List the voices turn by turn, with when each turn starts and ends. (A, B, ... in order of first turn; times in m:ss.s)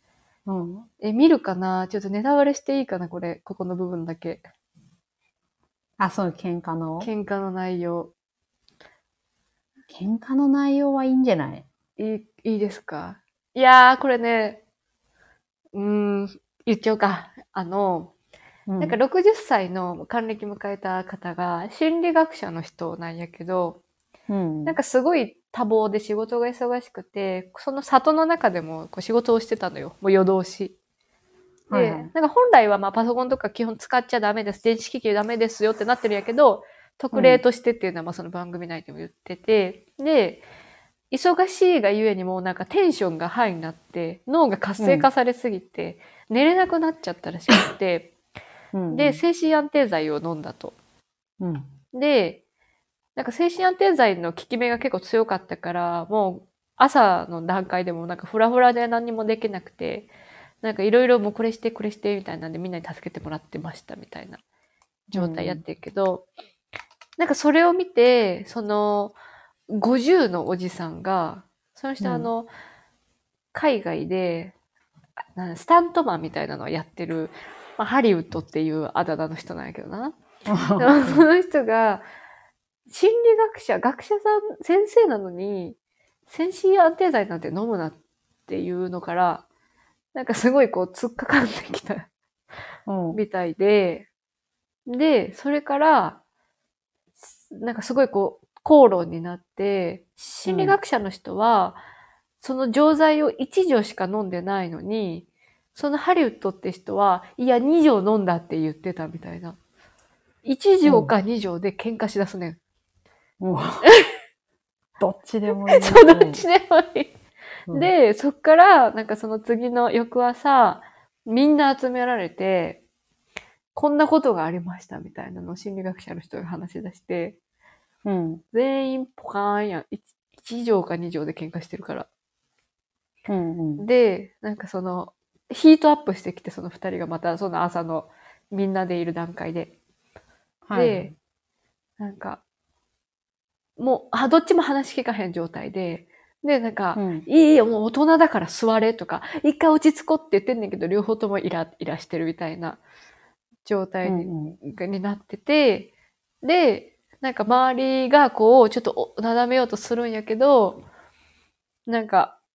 0:00.4-0:00.9 A
0:01.0-0:04.4 B
0:06.0-0:07.1 A
0:07.0-0:08.1 B
0:09.9-0:11.6 A
0:12.0-0:14.6 B
0:15.7-0:18.1 B
0:18.7-0:19.0 A
0:18.8-0:23.8 B
0:24.3-0:24.8 A
0:24.6-0:30.8 B
0:31.7-0:32.1 A
0:31.7-0:40.4 B
0:37.1-0:37.4 A
0:41.1-0:48.1 B
0:44.8-0:45.0 A
0:48.7-0:49.2 A
0:48.9-0:50.8 B
0:51.4-0:51.7 A
0:51.9-0:52.4 B
0:53.2-1:04.4 B
1:05.1-1:06.3 B
1:05.1-1:05.6 A
1:07.2-1:09.2 B
1:09.7-1:12.5 B
1:12.0-1:12.3 A
1:13.5-1:14.5 B
1:15.4-1:20.2 B
1:20.5-1:21.3 A
1:20.8-1:22.0 B
1:22.9-1:25.8 B
1:26.3-1:29.4 B
1:30.1-1:32.1 B
1:32.9-1:33.2 A
1:33.1-1:34.1 B
1:34.8-1:36.2 B
1:37.4-1:41.8 B
1:40.4-1:40.8 A
1:42.4-1:49.6 B
1:50.4-1:52.6 B
1:50.8-1:51.1 A
1:53.4-1:53.8 A
1:55.0-1:56.4 A
1:55.6-1:57.1 B
1:57.7-2:02.8 B
2:03.7-2:07.4 B
2:08.0-2:08.4 A
2:08.5-2:12.1 B
2:13.3-2:13.8 A
2:13.8-2:19.7 B
2:20.6-2:21.1 A
2:20.7-2:21.1 B
2:22.0-2:22.4 B
2:23.8-2:32.8 B
2:27.0-2:27.2 A
2:33.6-2:35.9 B
2:34.0-2:34.6 A
2:36.4-2:40.8 B
2:41.9-2:42.4 B